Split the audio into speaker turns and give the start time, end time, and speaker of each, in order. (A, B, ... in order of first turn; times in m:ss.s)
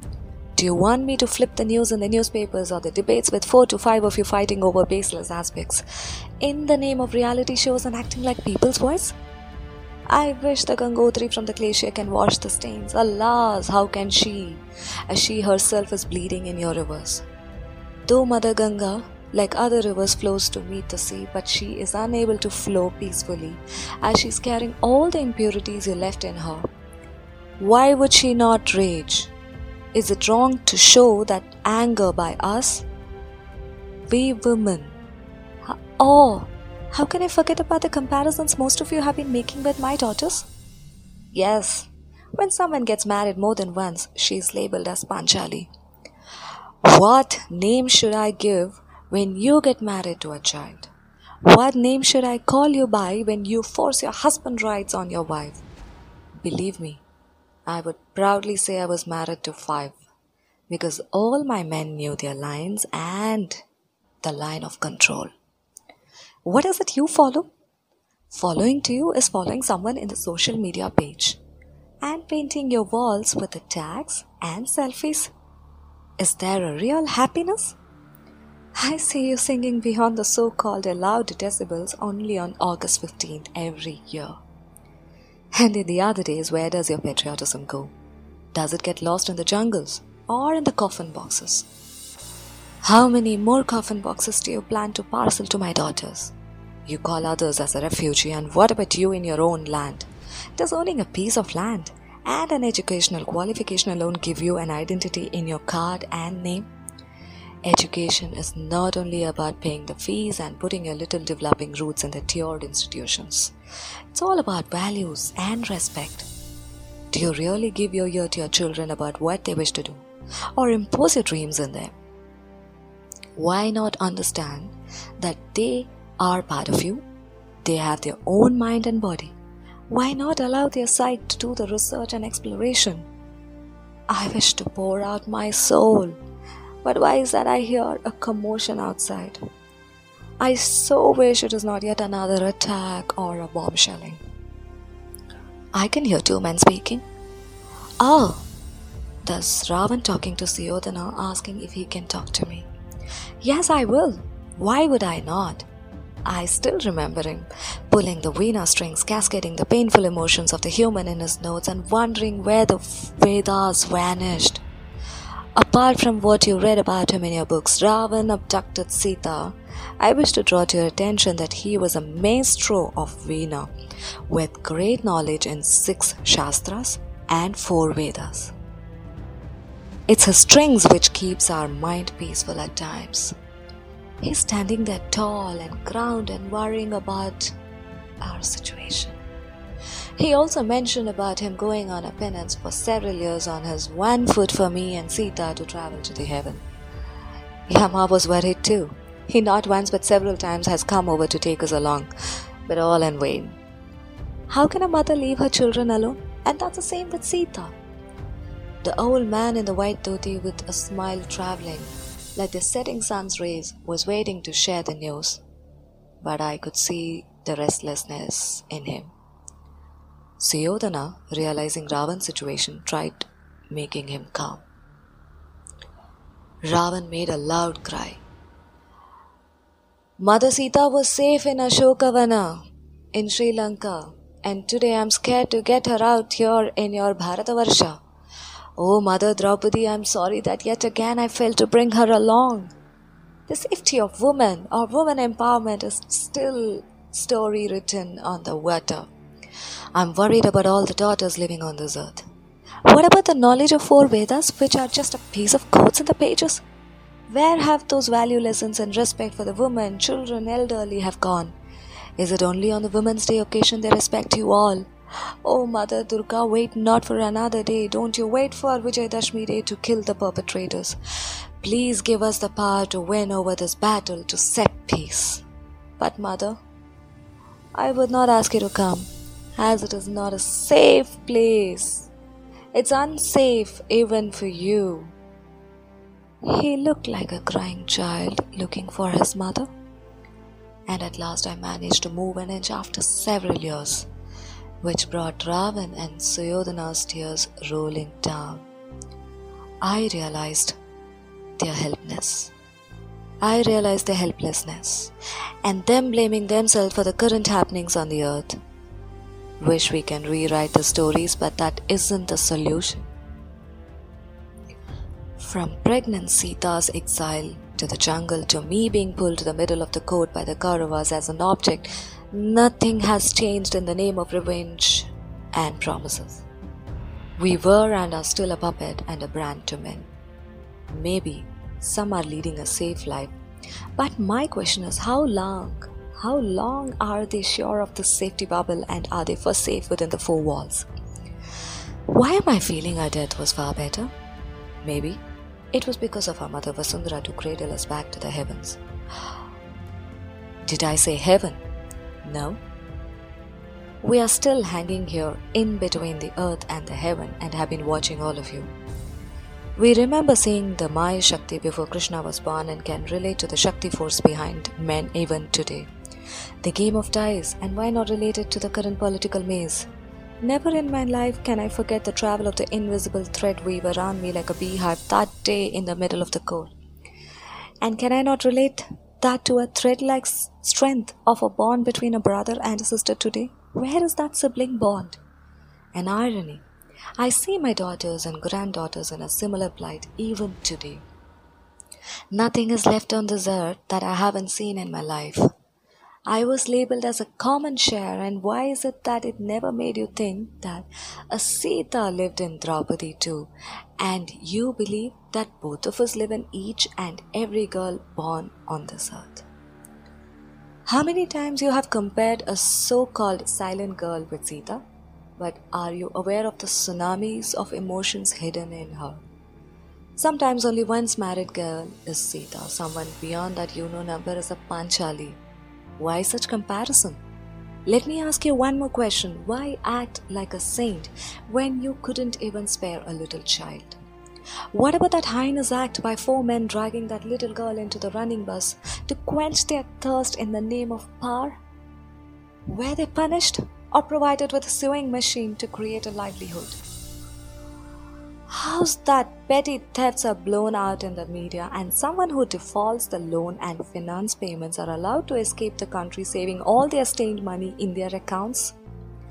0:00.6-0:05.8 A
0:06.4-0:09.2 A
0:10.1-0:17.2 A
0:18.1-0:26.7 A
0:27.6-0:29.3 A
0:29.9-0:32.9 A
0:34.1-0:35.0 A
0:35.7-0:40.5 A
0:41.3-0:45.7 A
0:46.8-0:50.9 A
0:51.4-0:55.6 A
0:56.4-0:57.0 A
0:57.7-1:00.0 A
1:00.7-1:03.6 A
1:04.2-1:05.3 A
1:06.4-1:07.5 A
1:08.3-1:11.4 A
1:12.0-1:15.3 A
1:16.2-1:17.8 A
1:18.8-1:24.4 A
1:25.6-1:27.9 A
1:28.5-1:31.7 A
1:32.8-1:36.3 A
1:36.9-1:46.7 A
1:47.6-1:53.5 A
1:54.1-1:56.3 A
1:57.1-2:00.1 A
2:00.6-2:01.9 A
2:03.4-2:07.0 A
2:07.6-2:09.4 A
2:09.9-2:13.1 A
2:14.1-2:16.2 A
2:16.8-2:19.4 A
2:20.4-2:24.2 A
2:25.7-2:27.0 A
2:28.0-2:28.4 A
2:29.2-2:32.7 A
2:33.4-2:35.7 A
2:36.3-2:44.6 A
2:45.6-2:53.7 A
2:54.3-2:58.5 A
3:00.1-3:03.3 A
3:04.2-3:07.5 A
3:08.2-3:09.2 A
3:10.2-3:16.6 A
3:17.7-3:22.1 A
3:22.7-3:23.6 A
3:24.5-3:27.8 A
3:28.8-3:35.4 A
3:36.2-3:39.1 A
3:40.4-3:44.6 A
3:46.7-3:48.2 A
3:50.2-3:52.6 A
3:53.1-3:58.0 A
3:58.8-4:02.7 A
4:03.5-4:09.1 A
4:10.0-4:12.3 A
4:12.9-4:16.6 A
4:17.3-4:21.6 A
4:22.2-4:24.9 A
4:25.4-4:31.0 A
4:31.6-4:35.4 A
4:36.0-4:36.6 A
4:37.7-4:42.1 A
4:42.7-4:45.1 A
4:46.4-4:49.7 A
4:50.9-4:54.1 A
4:54.8-4:58.6 A
4:59.8-5:00.8 A
5:01.6-5:02.5 A
5:03.4-5:05.1 A
5:05.6-5:08.6 A
5:09.6-5:13.1 A
5:15.4-5:26.4 A
5:27.4-5:30.1 A
5:30.9-5:33.4 A
5:34.0-5:40.9 A
5:42.1-5:44.1 A
5:44.8-5:48.8 A
5:50.7-5:51.6 A
5:52.2-5:52.6 A
5:54.0-5:58.7 A
5:59.8-6:05.9 A
6:06.6-6:09.9 A
6:10.4-6:16.7 A
6:17.8-6:25.2 A
6:25.9-6:26.6 A
6:27.2-6:31.0 A
6:32.3-6:35.5 A
6:36.3-6:49.4 A
6:50.9-6:54.8 A
6:55.4-6:59.2 A
7:00.2-7:05.4 A
7:06.0-7:07.2 A
7:07.9-7:14.0 A
7:14.7-7:21.6 A
7:22.7-7:26.8 A
7:28.5-7:38.8 A